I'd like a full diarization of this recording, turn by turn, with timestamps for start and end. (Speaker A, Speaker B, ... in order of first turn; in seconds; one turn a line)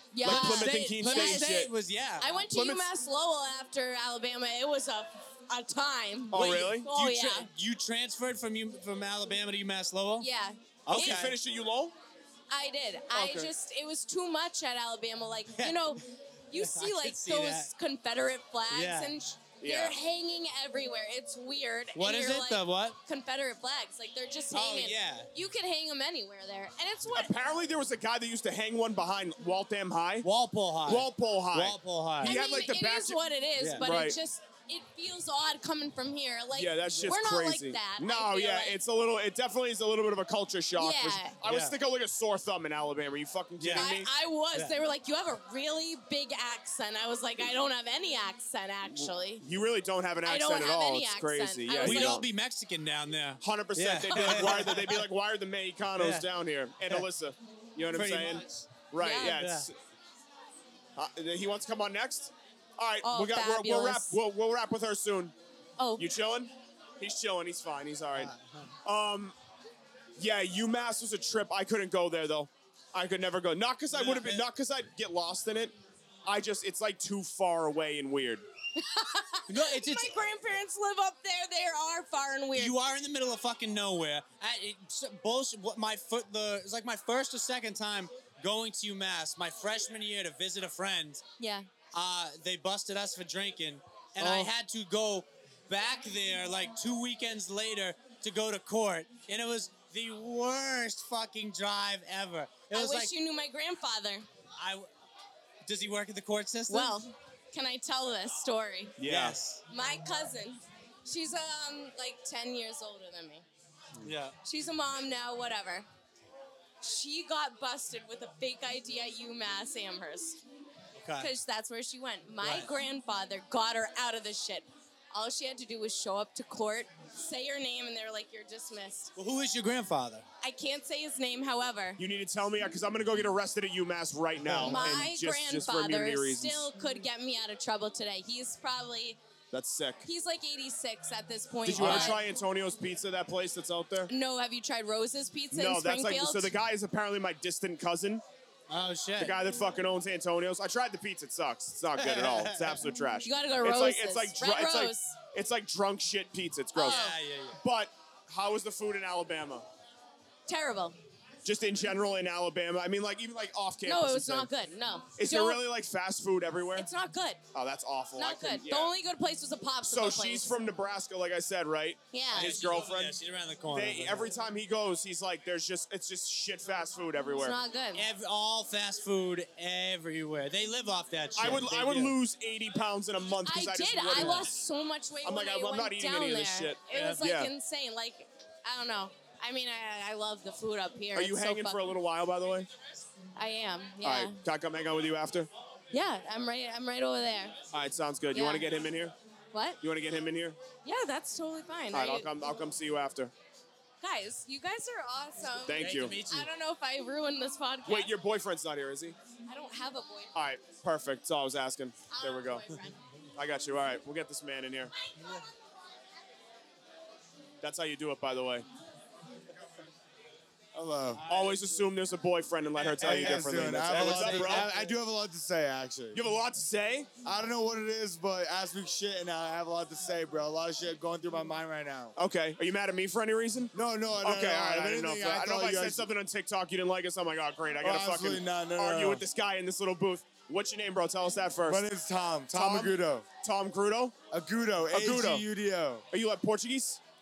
Speaker A: 0.1-1.5
Speaker B: 0.2-1.7
Speaker C: 0.2-2.4
Speaker A: 2.2-7.5
Speaker B: 2.5-2.9
Speaker B: 6.3-6.9
Speaker C: 6.3-10.3
Speaker A: 10.2-11.4
Speaker C: 10.9-11.4
Speaker B: 10.9-11.9
Speaker A: 12.5-27.3
Speaker B: 13.1-13.5
Speaker C: 15.6-16.0
Speaker C: 16.6-17.7
Speaker C: 18.7-19.1
Speaker B: 19.6-20.0
Speaker C: 22.0-23.0
Speaker C: 24.5-25.3
Speaker B: 27.1-30.3
Speaker C: 30.2-32.4
Speaker B: 30.9-33.2
Speaker A: 32.2-38.8
Speaker C: 33.6-33.9
Speaker B: 33.8-34.2
Speaker B: 36.5-44.1
Speaker A: 40.8-41.4
Speaker C: 41.4-41.8
Speaker C: 43.6-44.0
Speaker A: 43.7-49.4
Speaker C: 44.5-44.8
Speaker B: 48.9-52.2
Speaker A: 50.2-52.2
Speaker C: 51.8-55.1
Speaker B: 53.4-59.8
Speaker A: 54.1-54.9
Speaker C: 56.0-56.3
Speaker C: 57.9-59.7
Speaker A: 59.0-59.4
Speaker B: 61.0-65.3
Speaker A: 63.0-64.2
Speaker A: 65.8-66.0
Speaker B: 66.0-68.3
Speaker C: 68.1-68.7
Speaker B: 68.8-69.4
Speaker B: 70.2-78.4
Speaker C: 73.9-74.5
Speaker A: 78.8-82.8
Speaker C: 79.5-80.2
Speaker C: 82.5-91.2
Speaker A: 91.4-91.7
Speaker C: 91.9-103.1
Speaker D: 94.2-94.5
Speaker A: 102.7-104.3
Speaker C: 104.6-104.9
Speaker C: 105.7-107.0
Speaker A: 106.7-109.0
Speaker B: 109.0-109.4
Speaker C: 109.0-109.6
Speaker A: 109.7-113.5
Speaker C: 114.0-114.4
Speaker A: 114.4-115.9
Speaker A: 116.8-120.4
Speaker C: 121.0-121.3
Speaker A: 121.2-129.1
Speaker C: 122.4-122.7
Speaker C: 129.2-130.2
Speaker A: 130.4-132.0
Speaker B: 132.0-136.7
Speaker C: 134.4-135.0
Speaker A: 134.7-139.2
Speaker B: 139.5-140.1
Speaker A: 140.1-142.2
Speaker B: 141.6-144.1
Speaker C: 141.7-142.2
Speaker A: 144.1-146.5
Speaker B: 145.5-148.2
Speaker C: 148.7-149.4
Speaker B: 149.2-157.1
Speaker C: 152.0-152.8
Speaker A: 153.2-155.2
Speaker A: 156.8-157.2
Speaker C: 156.8-157.6
Speaker B: 157.6-159.7
Speaker A: 160.5-161.0
Speaker B: 161.4-164.5
Speaker A: 163.8-165.6
Speaker B: 165.2-166.9
Speaker A: 166.8-167.4
Speaker B: 167.5-168.9
Speaker A: 168.2-170.6
Speaker B: 169.9-173.2
Speaker A: 172.1-172.6
Speaker C: 172.3-174.3
Speaker B: 173.7-177.6
Speaker A: 177.3-178.1
Speaker C: 177.9-182.2
Speaker B: 181.4-184.5
Speaker A: 183.4-191.9
Speaker C: 184.1-184.4
Speaker B: 185.2-187.5
Speaker C: 186.9-187.2
Speaker B: 191.1-192.7
Speaker A: 193.4-194.4
Speaker B: 194.0-195.5
Speaker A: 195.9-197.6
Speaker B: 197.7-199.1
Speaker A: 198.3-198.7
Speaker A: 199.5-199.8
Speaker B: 199.8-200.6
Speaker A: 200.8-202.3
Speaker B: 201.9-203.3
Speaker A: 204.0-208.1
Speaker B: 205.7-206.2
Speaker C: 205.7-206.5
Speaker B: 207.9-209.2
Speaker A: 209.5-210.4
Speaker B: 210.3-212.7
Speaker A: 212.1-213.0
Speaker B: 213.4-214.9
Speaker C: 215.2-215.4
Speaker B: 217.6-218.7
Speaker D: 220.8-221.2
Speaker C: 221.2-221.6
Speaker B: 221.3-224.7
Speaker C: 222.8-224.9
Speaker D: 223.0-226.2
Speaker B: 226.1-227.1
Speaker D: 227.2-232.2
Speaker B: 232.2-241.8
Speaker D: 233.7-236.1
Speaker D: 237.8-239.2
Speaker D: 241.7-243.3
Speaker B: 242.5-244.2
Speaker D: 244.3-246.0
Speaker B: 244.9-245.4
Speaker B: 246.1-247.0